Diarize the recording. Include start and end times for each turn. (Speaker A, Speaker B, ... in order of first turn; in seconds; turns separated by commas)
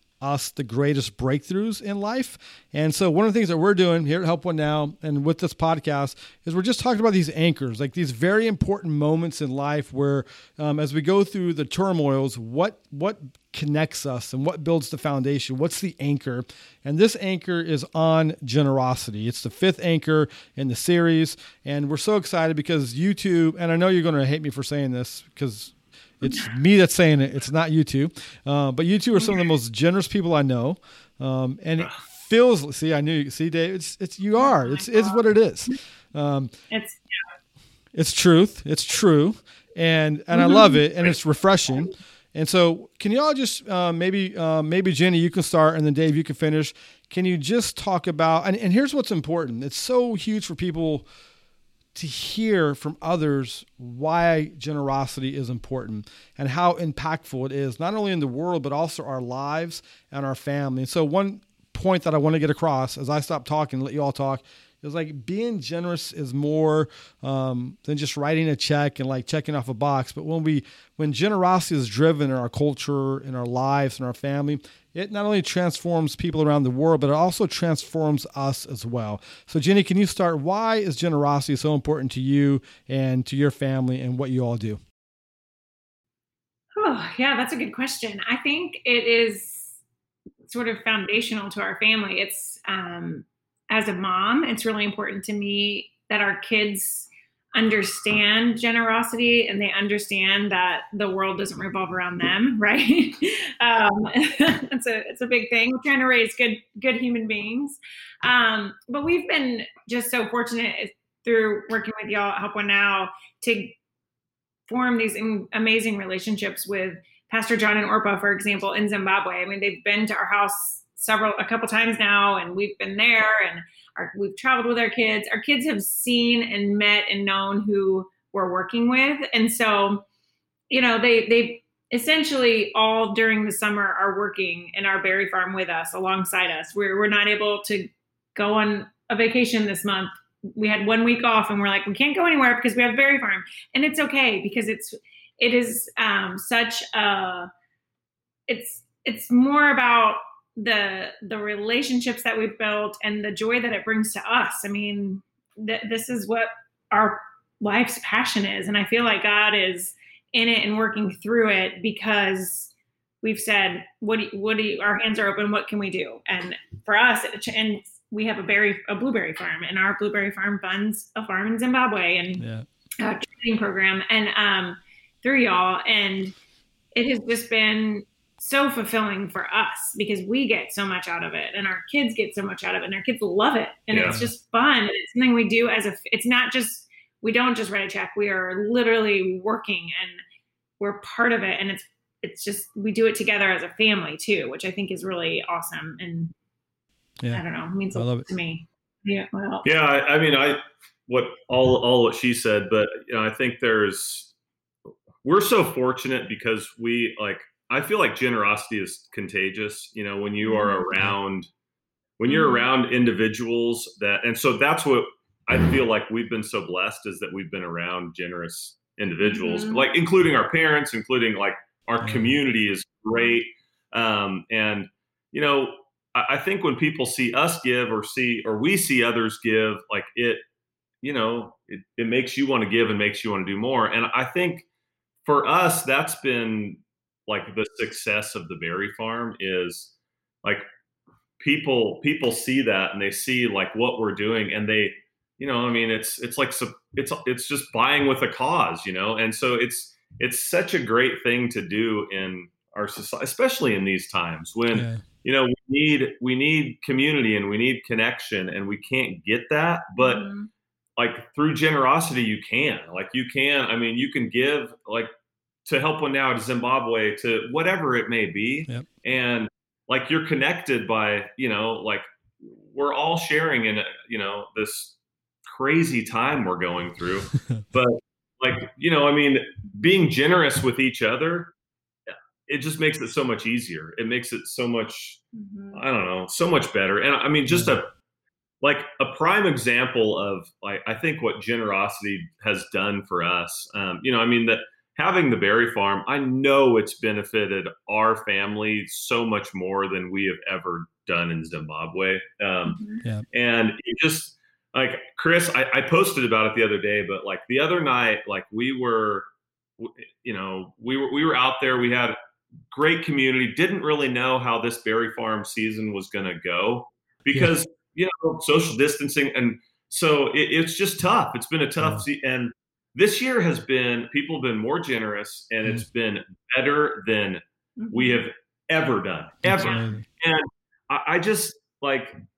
Speaker A: 0.2-36.5, Speaker B: 29.1-29.4, Speaker B: 34.4-35.2, Speaker B: 36.7-37.0, Speaker A: 37.9-51.0, Speaker B: 40.3-40.8, Speaker A: 51.9-84.8, Speaker B: 86.8-89.8, Speaker B: 90.5-113.8, Speaker B: 114.7-130.0, Speaker B: 130.7-147.5, Speaker B: 148.5-162.7, Speaker B: 163.2-172.4, Speaker A: 172.4-172.7, Speaker B: 173.0-176.3, Speaker B: 176.9-190.2, Speaker C: 183.9-184.2, Speaker A: 184.1-184.3, Speaker B: 190.8-196.3, Speaker B: 197.3-199.7, Speaker A: 197.9-198.3, Speaker C: 199.6-204.3, Speaker C: 205.2-211.5, Speaker B: 210.4-210.9, Speaker C: 212.2-230.4, Speaker B: 212.2-212.7, Speaker B: 219.2-219.8, Speaker A: 222.0-222.3, Speaker C: 231.0-234.6, Speaker C: 235.2-239.9, Speaker C: 241.4-260.2, Speaker A: 254.7-255.0, Speaker B: 260.0-260.5, Speaker C: 261.0-265.1, Speaker C: 265.6-274.9, Speaker C: 275.5-281.5, Speaker C: 282.1-285.2, Speaker B: 285.3-285.8, Speaker C: 285.7-287.9, Speaker A: 287.5-287.8, Speaker C: 288.6-302.8, Speaker B: 302.6-303.0, Speaker C: 303.3-309.3, Speaker C: 309.8-312.1, Speaker C: 312.7-332.1, Speaker B: 327.8-328.2, Speaker A: 329.4-330.0, Speaker B: 329.5-329.9